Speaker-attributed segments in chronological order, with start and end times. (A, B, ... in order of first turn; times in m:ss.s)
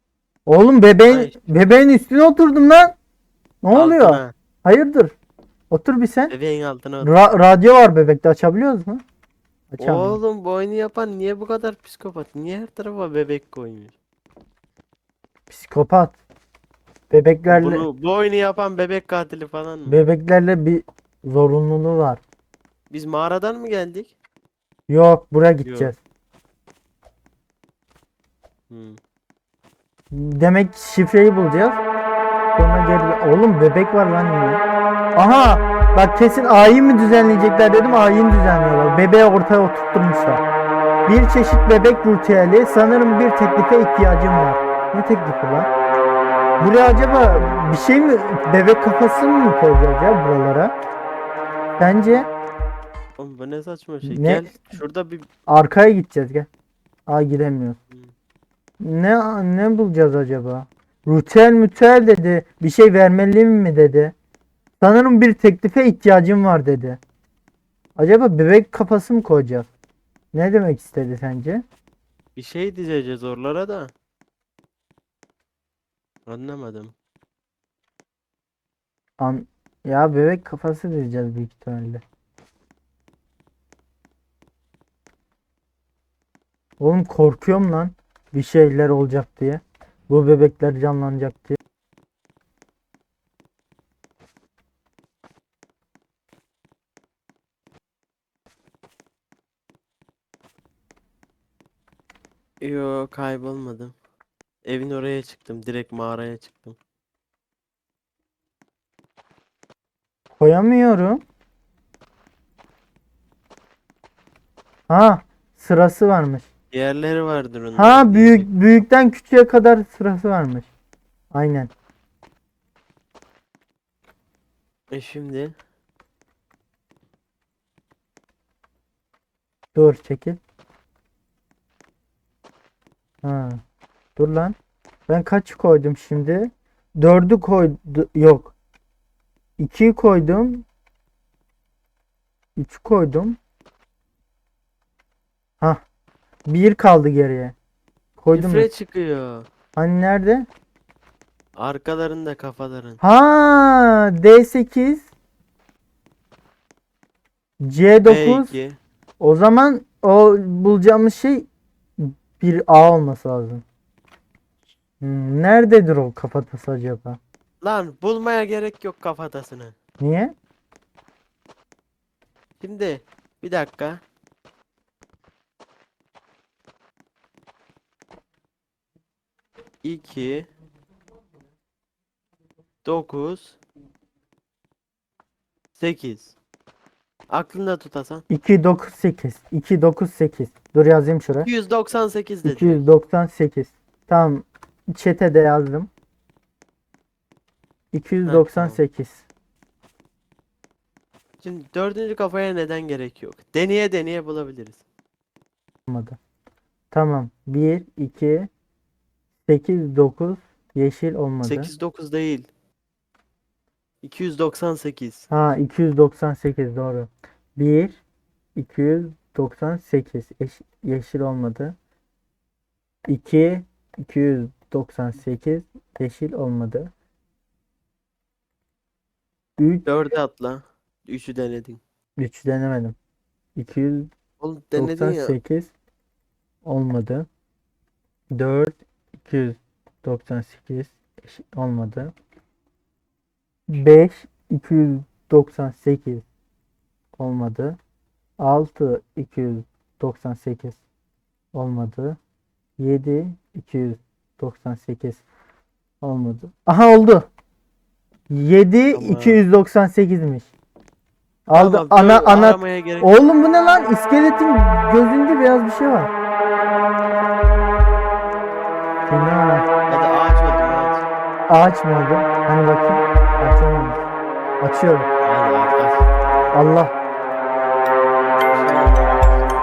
0:00.4-0:02.9 A
0:01.1-0:01.4 B
0:03.6-0:05.1 A
0:03.7-0:04.3 B
0:05.7-0:06.3 A
0:06.3-0:07.2 B
0:07.0-0:09.0 A
0:09.7-0:10.2 A
0:09.8-0:13.9 B
0:15.5-0:16.2 A
0:17.1-0:17.8 A
0:17.5-0:20.0 B
0:19.9-0:22.2 A
0:22.9-0:24.1 B
0:24.9-0:26.0 A
0:25.6-0:25.9 B
0:28.7-0:29.0 B
0:30.1-0:31.8 A
0:32.5-0:34.6 A
0:35.2-0:40.4 A
0:41.1-0:45.7 A
0:46.6-0:50.7 A
0:51.8-0:52.3 A
0:53.2-0:55.3 B
0:54.0-0:54.5 A
0:55.5-0:56.5 A
0:57.1-0:57.8 A
0:58.8-1:04.1 A
1:04.8-1:07.0 A
1:08.0-1:09.7 A
1:10.3-1:11.6 A
1:12.4-1:13.9 B
1:16.3-1:16.9 B
1:19.2-1:22.0 A
1:26.8-1:31.6 A
1:42.6-1:43.9 B
1:44.6-1:46.8 B
1:50.4-1:51.2 A
1:54.9-1:56.5 A
1:56.7-1:58.5 B
1:57.8-2:00.7 A
2:01.3-2:01.7 A
2:04.9-2:05.5 B
2:09.7-2:10.4 A
2:13.2-2:13.6 A
2:14.2-2:14.6 A
2:15.1-2:18.5 A
2:19.6-2:20.6 A
2:22.6-2:23.4 A
2:26.4-2:27.5 A
2:28.2-2:28.7 A
2:28.3-2:29.5 B
2:29.8-2:30.5 A
2:31.6-2:33.0 B
2:33.0-2:35.1 A
2:37.6-2:38.5 A
2:38.0-2:38.8 B
2:39.2-2:41.5 A
2:42.0-2:43.6 A
2:45.0-2:47.2 A
2:47.6-2:49.7 B
2:50.0-2:50.3 A
2:52.6-2:54.0 B
2:59.8-3:00.5 B
3:02.8-3:03.6 B
3:05.8-3:06.4 B
3:07.3-3:08.2 B
3:08.3-3:11.5 A
3:11.4-3:12.8 B
3:12.4-3:15.9 A
3:17.9-3:19.2 A
3:18.2-3:18.8 B
3:21.4-3:24.8 B
3:25.9-3:26.2 A
3:26.9-3:28.5 A
3:29.5-3:31.7 A
3:31.4-3:32.5 B
3:34.0-3:35.3 B
3:35.3-3:38.0 A
3:38.6-3:41.7 A
3:43.1-3:46.9 A
3:49.6-3:49.9 A
3:49.8-3:51.8 B
3:52.2-3:53.0 A
3:53.6-3:54.1 A
3:54.4-3:55.3 B
3:54.7-3:55.7 A
3:56.6-3:57.3 A
3:58.3-4:02.1 A
4:03.7-4:06.2 A
4:07.2-4:07.8 A
4:08.4-4:10.8 A
4:11.5-4:12.2 A
4:12.8-4:15.2 A
4:16.0-4:17.3 A
4:18.3-4:20.5 A
4:18.9-4:19.4 B
4:21.5-4:26.1 A
4:21.5-4:23.1 B
4:29.1-4:29.7 A
4:29.9-4:31.0 B
4:31.5-4:34.0 A
4:34.6-4:35.1 A
4:35.2-4:36.5 B
4:36.5-4:36.9 A
4:38.5-4:39.1 B